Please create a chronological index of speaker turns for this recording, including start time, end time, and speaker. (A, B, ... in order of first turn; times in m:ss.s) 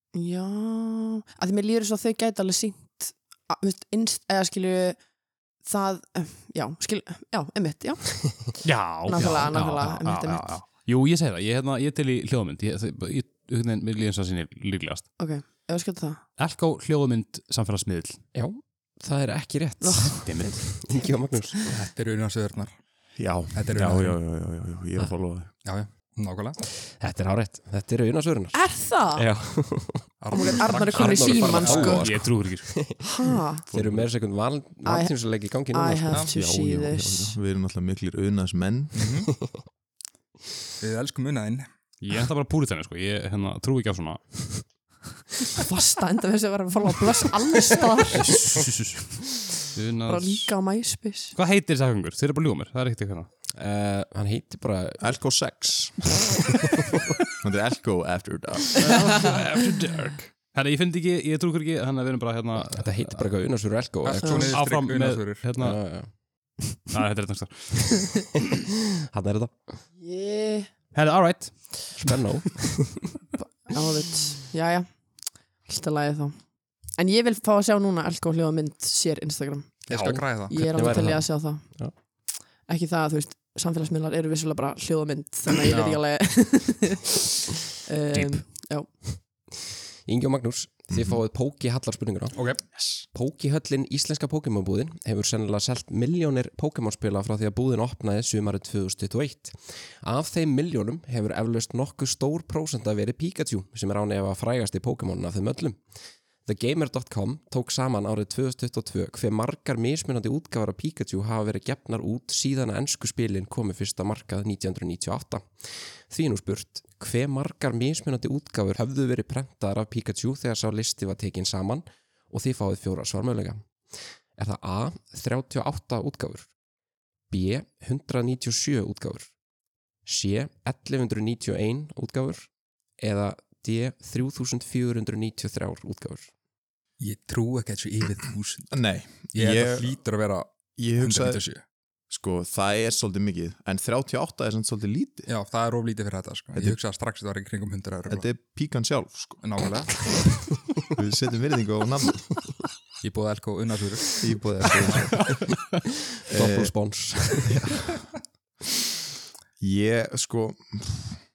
0:00.1-0:05.0 A
0:05.6-0:10.5 A
0:08.6-0:15.2 B
0:15.2-0:16.2 A
0:16.4-0:18.2 B
0:18.3-0:21.7 C
0:19.8-0:21.7 A
0:20.1-0:20.7 B
0:21.7-0:22.8 D
0:23.2-0:25.5 E
0:23.5-0:24.2 D
0:25.6-0:26.6 D
0:26.9-0:36.2 C
0:28.5-0:29.2 A
0:30.2-0:32.0 D
0:30.3-0:32.1 A
0:32.0-0:32.7 B
0:33.0-0:33.6 A
0:33.7-0:34.1 B
0:34.8-0:37.4 A
0:36.3-0:39.1 E
0:38.9-0:39.3 D
0:40.8-0:41.7 D
0:42.0-0:44.9 B
0:45.6-0:48.6 A
0:48.1-0:50.5 B
0:50.0-0:51.4 A
0:51.3-0:53.3 B
0:53.5-0:55.3 C
0:55.0-0:56.3 E
0:57.4-0:58.8 E
0:58.8-1:03.3 B
0:58.9-0:59.3 A
1:02.7-1:04.6 C
1:04.0-1:05.4 D
1:04.2-1:04.6 A
1:04.5-1:05.8 B
1:05.5-1:06.8 C
1:06.9-1:08.2 B
1:09.1-1:09.8 C
1:10.0-1:10.7 A
1:10.9-1:12.2 B
1:11.9-1:13.0 C
1:13.4-1:19.9 A
1:19.9-1:20.6 D
1:19.9-1:21.9 C
1:20.5-1:27.2 A
1:25.7-1:26.0 B
1:27.8-1:29.1 A
1:28.1-1:28.7 B
1:30.0-1:32.5 C
1:30.9-1:31.2 E
1:32.3-1:33.0 D
1:33.1-1:45.8 C
1:46.4-2:06.6 C
2:07.3-2:09.4 C
2:10.0-2:16.3 C
2:17.0-2:21.6 D
2:18.7-2:20.0 E
2:20.8-2:21.4 E
2:22.1-2:25.3 E
2:25.3-2:28.3 D
2:26.5-2:26.8 E
2:28.0-2:29.6 E
2:29.4-2:30.2 D
2:30.9-2:32.5 E
2:33.0-2:35.0 D
2:34.2-2:35.5 E
2:36.2-2:38.0 C
2:36.3-2:37.9 E
2:39.6-2:41.2 E